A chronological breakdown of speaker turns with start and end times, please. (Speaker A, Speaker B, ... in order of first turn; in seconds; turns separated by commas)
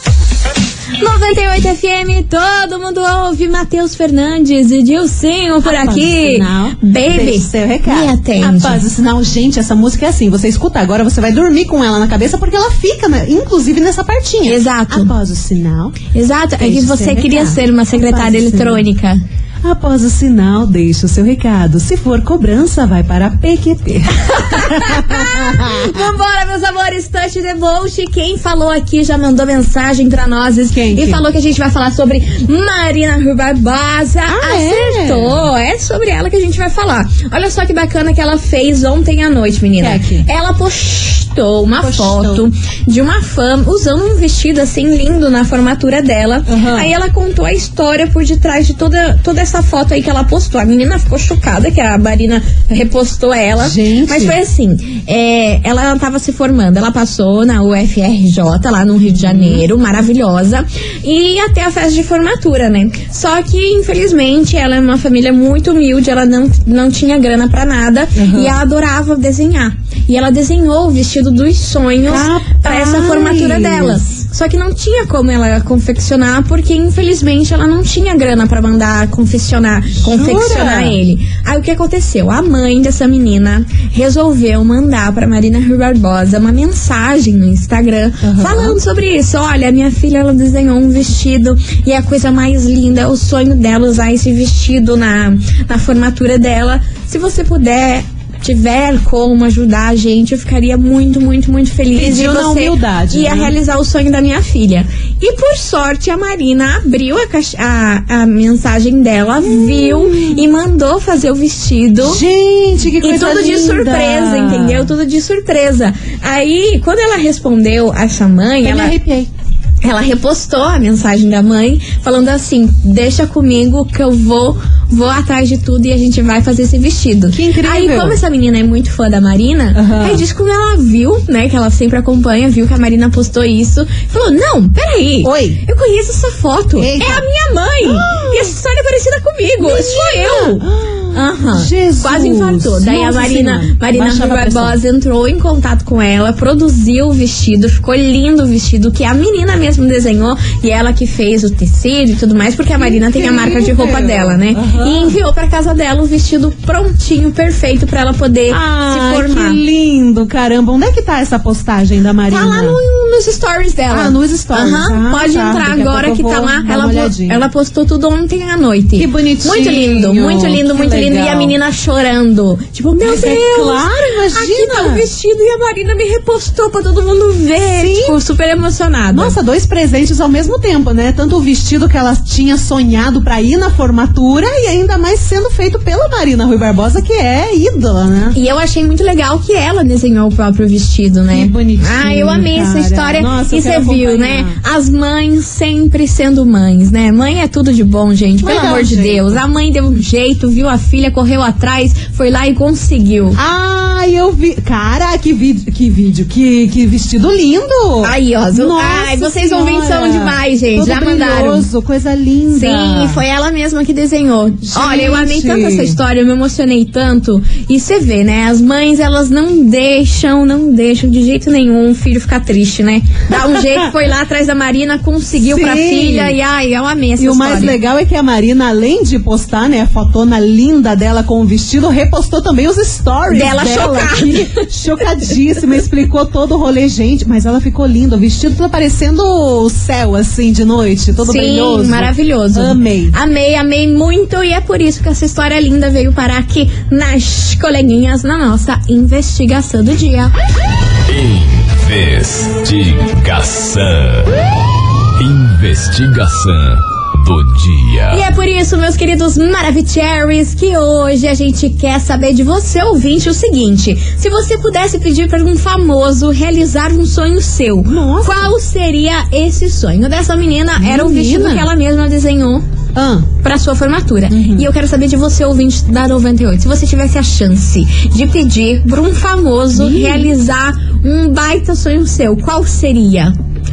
Speaker A: 1.0-8.8, Speaker B: 5.6-16.0, Speaker A: 14.4-15.1, Speaker A: 16.1-19.2, Speaker B: 16.6-18.8, Speaker B: 19.6-26.0, Speaker A: 24.3-112.2, Speaker B: 30.7-31.2, Speaker B: 34.3-35.4, Speaker B: 39.8-40.3, Speaker B: 41.8-42.5, Speaker B: 46.5-46.9, Speaker B: 53.6-54.4, Speaker B: 59.2-59.6, Speaker B: 68.2-68.6, Speaker B: 72.0-74.0, Speaker B: 80.0-81.0, Speaker B: 88.2-88.8, Speaker B: 101.9-103.5, Speaker B: 109.4-110.5, Speaker B: 112.0-114.9, Speaker A: 113.0-119.0, Speaker B: 118.6-119.3, Speaker A: 119.8-159.6, Speaker B: 127.3-128.2, Speaker B: 129.8-130.2, Speaker B: 135.2-135.6, Speaker B: 136.8-137.3, Speaker B: 137.8-138.5, Speaker B: 139.6-144.8, Speaker B: 152.8-155.2, Speaker B: 158.5-162.8, Speaker A: 162.3-179.4, Speaker B: 163.9-167.5, Speaker B: 169.0-171.6, Speaker B: 173.0-175.1, Speaker B: 177.8-178.2, Speaker B: 179.1-188.4, Speaker A: 188.3-203.4, Speaker B: 191.3-194.6, Speaker B: 198.4-199.4, Speaker B: 203.4-213.2, Speaker A: 208.0-211.7, Speaker A: 212.5-227.8, Speaker B: 214.7-216.0, Speaker B: 225.4-226.4, Speaker B: 227.2-243.2, Speaker A: 233.3-234.6, Speaker A: 241.2-250.3, Speaker C: 251.1-254.3, Speaker C: 255.2-258.2, Speaker A: 258.1-272.6, Speaker B: 267.9-268.5, Speaker B: 270.8-271.7, Speaker B: 272.9-273.3, Speaker A: 273.4-283.3, Speaker B: 274.3-274.7, Speaker B: 279.7-280.3